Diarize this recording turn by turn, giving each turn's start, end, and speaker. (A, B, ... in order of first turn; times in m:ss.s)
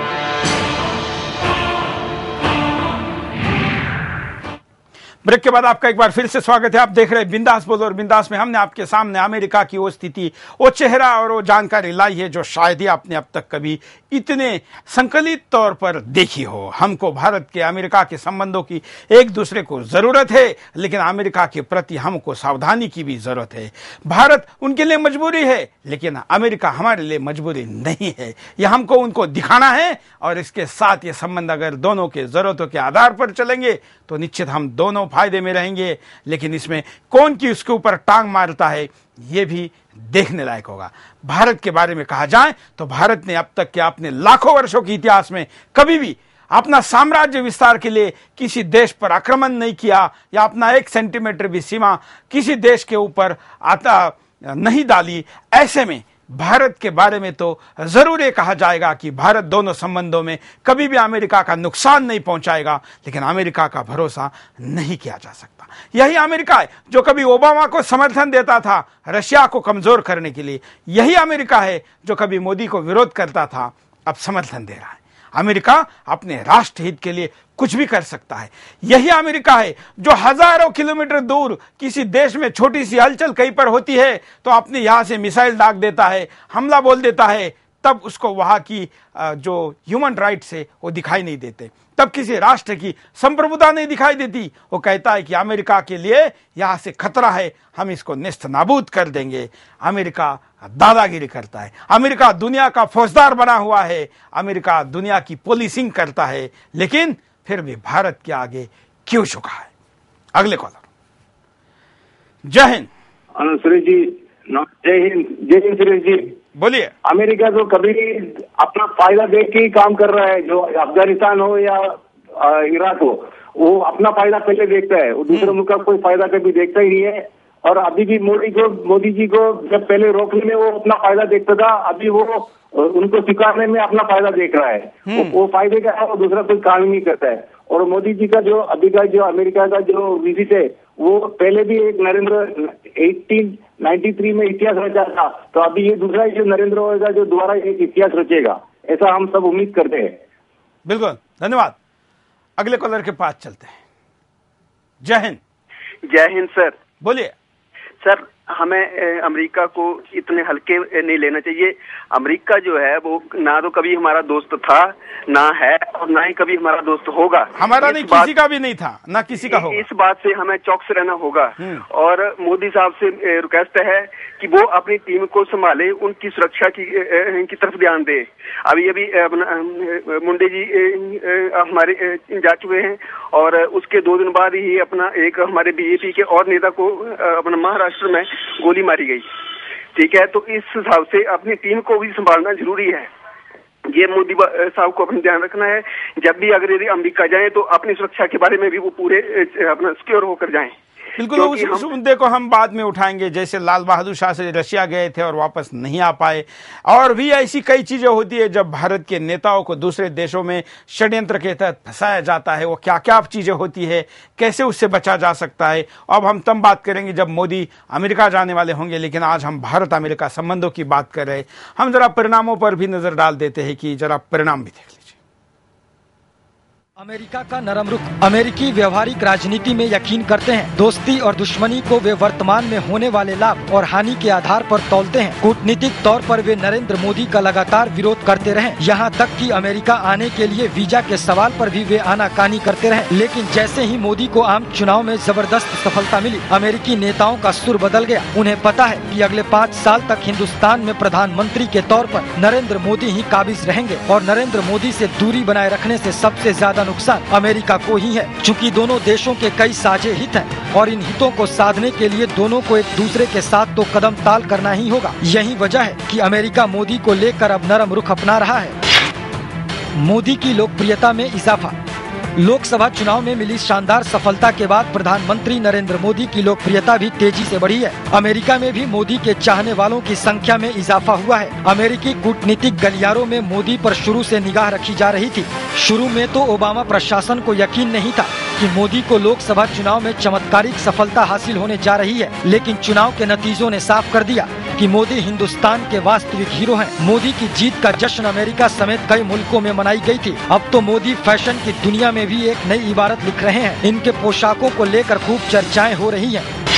0:05.2-1:49.7 A
1:50.4-1:50.8 A
1:52.5-1:52.9 A
1:53.4-1:56.3 B
1:56.6-1:56.9 A
1:57.0-2:30.2 B
2:15.1-2:15.4 A
2:30.9-2:31.8 A
2:32.6-2:33.8 A
2:35.0-2:35.4 A
2:36.1-2:36.8 C
2:37.0-2:37.3 A
2:38.0-2:48.3 C
2:47.6-2:49.8 A
2:49.5-3:09.3 C
2:51.6-2:51.8 A
3:10.0-3:13.1 C
3:13.9-3:20.7 C
3:21.2-3:45.2 A
3:21.4-3:21.9 C
3:47.0-4:28.8 D
4:30.0-4:31.8 D
4:32.4-5:06.5 D